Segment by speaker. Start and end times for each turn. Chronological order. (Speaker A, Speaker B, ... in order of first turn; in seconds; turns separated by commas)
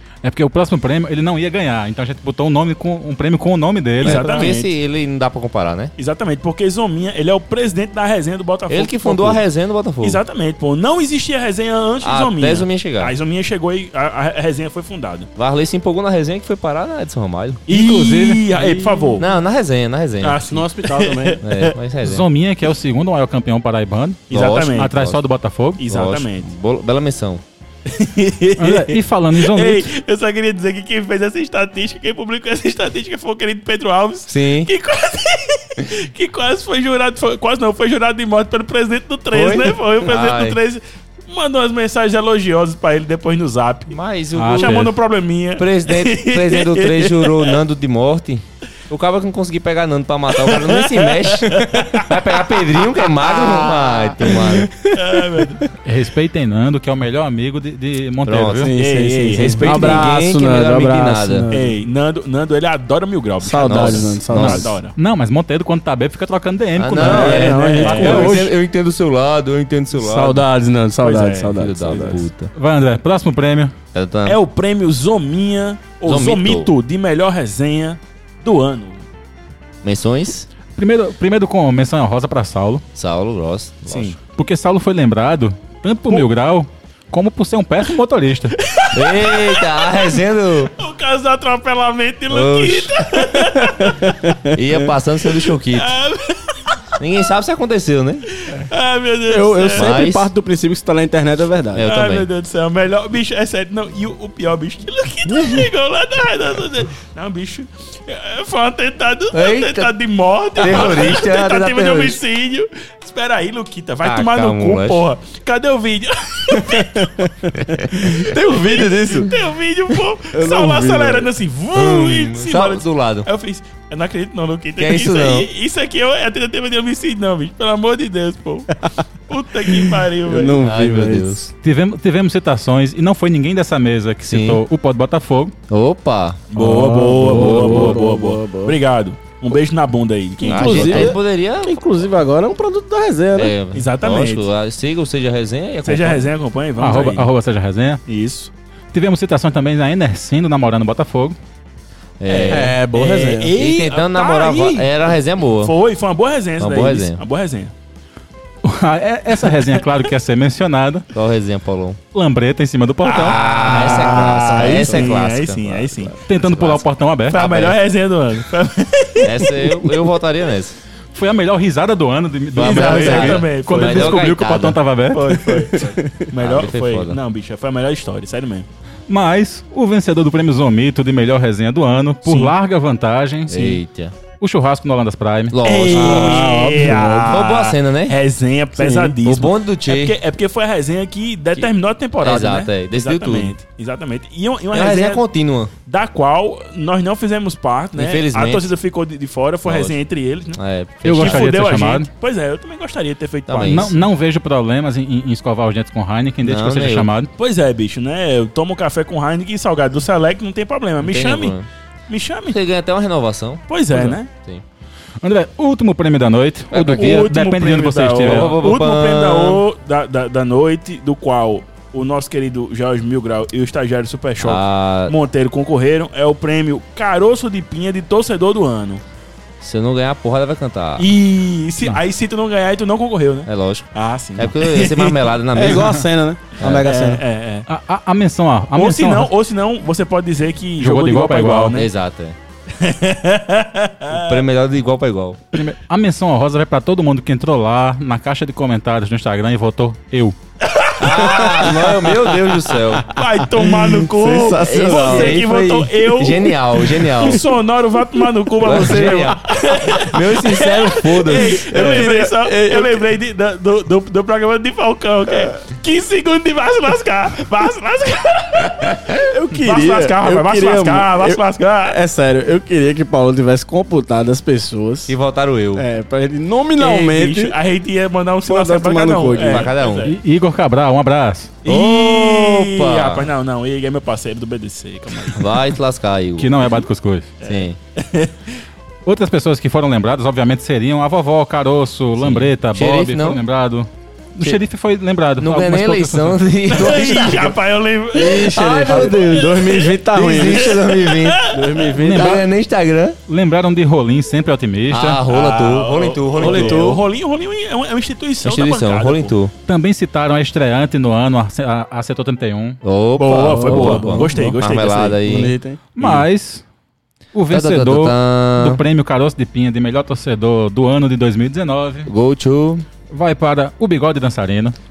Speaker A: 0.2-4.5, Speaker B: 4.0-4.7, Speaker C: 4.0-5.9, Speaker B: 6.0-9.4, Speaker C: 8.7-10.2, Speaker B: 10.0-15.3, Speaker C: 12.0-13.1, Speaker C: 15.3-17.6, Speaker B: 17.7-19.3, Speaker A: 17.7-18.5, Speaker D: 18.5-19.2, Speaker C: 19.2-20.4, Speaker B: 20.2-21.8, Speaker D: 20.5-21.4, Speaker C: 21.4-22.2, Speaker A: 22.0-25.8, Speaker B: 24.3-24.9, Speaker C: 24.3-25.2, Speaker B: 25.8-26.5, Speaker C: 25.9-27.4, Speaker B: 27.9-44.0, Speaker A: 28.6-29.9, Speaker C: 34.3-34.7, Speaker C: 39.3-40.6, Speaker C: 43.9-44.9, Speaker A: 44.3-44.9, Speaker B: 44.5-47.6, Speaker C: 45.6-54.7, Speaker B: 50.4-55.6, Speaker D: 54.4-55.6, Speaker A: 55.8-58.7, Speaker C: 58.2-58.7, Speaker D: 58.6-61.7, Speaker B: 58.7-60.1, Speaker C: 59.3-61.5, Speaker B: 61.5-64.9, Speaker D: 63.4-64.7, Speaker C: 63.6-64.7, Speaker A: 65.0-68.5, Speaker C: 66.8-70.4, Speaker D: 67.0-68.5, Speaker B: 67.0-68.4, Speaker D: 70.0-72.3, Speaker B: 71.0-72.1, Speaker C: 71.5-72.5, Speaker A: 72.5-73.7, Speaker C: 73.9-74.4, Speaker B: 74.2-79.0, Speaker C: 76.0-76.7, Speaker C: 79.8-80.5, Speaker A: 80.8-82.8, Speaker C: 82.9-84.2, Speaker B: 83.9-84.2, Speaker A: 84.3-88.5, Speaker B: 88.6-94.3, Speaker C: 88.9-90.7, Speaker C: 92.3-93.1, Speaker D: 93.4-94.6, Speaker C: 94.5-95.9, Speaker B: 95.3-96.8, Speaker C: 97.0-98.2, Speaker B: 98.4-100.0, Speaker D: 99.3-101.9, Speaker C: 99.8-100.3, Speaker C: 101.7-102.3, Speaker B: 101.8-117.1, Speaker C: 105.3-105.7, Speaker C: 109.3-109.9, Speaker C: 110.6-112.2, Speaker C: 114.0-115.0, Speaker D: 116.5-119.3, Speaker C: 117.6-118.1, Speaker B: 118.3-130.6, Speaker D: 120.3-121.3, Speaker C: 121.7-123.3, Speaker C: 124.8-125.5, Speaker D: 129.7-131.4, Speaker C: 130.6-131.5, Speaker A: 131.6-135.5, Speaker C: 134.3-134.6, Speaker C: 135.7-136.5, Speaker B: 136.5-141.2, Speaker D: 136.6-138.8, Speaker C: 137.2-138.0, Speaker D: 140.4-143.5, Speaker C: 140.4-142.0, Speaker C: 143.3-146.3, Speaker B: 143.7-144.5, Speaker B: 145.8-147.3, Speaker A: 146.8-148.0, Speaker B: 148.1-148.5, Speaker A: 148.9-151.4, Speaker C: 152.2-152.8, Speaker B: 152.2-155.0, Speaker D: 152.5-153.5, Speaker C: 153.5-155.7, Speaker B: 155.6-157.7, Speaker C: 156.6-157.2, Speaker A: 158.6-161.1, Speaker C: 161.1-162.0, Speaker A: 162.1-164.1, Speaker B: 163.0-166.2, Speaker C: 163.2-167.8, Speaker D: 163.9-165.1, Speaker A: 166.3-167.6, Speaker B: 167.3-170.0, Speaker C: 169.2-170.8, Speaker A: 171.1-175.5, Speaker C: 172.5-174.8, Speaker B: 172.5-174.3, Speaker B: 175.1-178.7, Speaker D: 175.4-176.3, Speaker C: 176.3-177.2, Speaker A: 179.1-183.8, Speaker B: 182.2-182.5, Speaker C: 183.5-184.1, Speaker A: 184.4-185.6, Speaker C: 185.5-188.2, Speaker B: 185.6-195.2, Speaker D: 185.9-187.5, Speaker D: 188.8-189.1, Speaker C: 189.2-190.2, Speaker C: 192.2-193.5, Speaker C: 194.7-195.7, Speaker B: 195.8-200.6, Speaker C: 197.9-198.7, Speaker C: 199.6-200.0, Speaker C: 200.5-201.7, Speaker A: 201.0-202.1, Speaker B: 201.1-203.9, Speaker C: 203.5-203.9, Speaker A: 203.6-207.3, Speaker C: 206.4-207.1, Speaker B: 207.4-211.6, Speaker C: 211.0-211.7, Speaker B: 212.1-212.6, Speaker C: 212.5-214.6, Speaker B: 213.7-214.3, Speaker A: 215.2-218.7, Speaker C: 216.7-217.3, Speaker B: 216.9-229.0, Speaker C: 218.2-219.6, Speaker C: 224.4-225.1, Speaker C: 229.6-231.1, Speaker B: 231.0-235.3, Speaker C: 233.4-236.0, Speaker D: 235.5-237.2, Speaker C: 236.6-236.9, Speaker B: 236.8-237.7, Speaker A: 237.7-239.3, Speaker B: 238.7-241.9, Speaker A: 240.8-241.8, Speaker C: 241.7-242.3, Speaker B: 242.7-244.4, Speaker C: 244.1-245.4, Speaker A: 245.5-250.4, Speaker B: 250.6-251.1, Speaker C: 251.0-253.1, Speaker D: 251.0-252.5, Speaker B: 253.1-271.9, Speaker D: 253.6-255.4, Speaker C: 254.6-257.4, Speaker C: 258.6-262.1, Speaker D: 261.3-263.0, Speaker D: 269.2-275.1, Speaker C: 275.1-275.8, Speaker D: 275.7-277.5, Speaker B: 276.8-280.1, Speaker D: 278.4-279.7, Speaker C: 279.4-280.1, Speaker A: 280.0-281.5, Speaker B: 281.6-285.6, Speaker C: 281.6-283.3, Speaker C: 285.3-286.8, Speaker A: 286.4-287.3, Speaker B: 287.4-288.5, Speaker C: 287.4-287.8, Speaker A: 289.0-297.1, Speaker C: 292.2-293.4, Speaker C: 295.4-297.6, Speaker B: 296.7-301.9, Speaker D: 298.1-300.8, Speaker C: 298.4-303.2, Speaker D: 301.5-302.4, Speaker A: 302.0-302.4, Speaker A: 303.3-305.2, Speaker C: 304.9-306.9, Speaker B: 305.2-309.3, Speaker D: 306.4-307.0, Speaker C: 308.4-309.5, Speaker A: 309.7-312.8, Speaker C: 312.8-316.2, Speaker B: 313.2-315.2, Speaker D: 313.4-314.6, Speaker D: 315.2-315.8, Speaker A: 315.9-316.6, Speaker A: 317.3-322.1, Speaker C: 317.5-318.8, Speaker C: 322.1-322.8, Speaker A: 323.1-324.8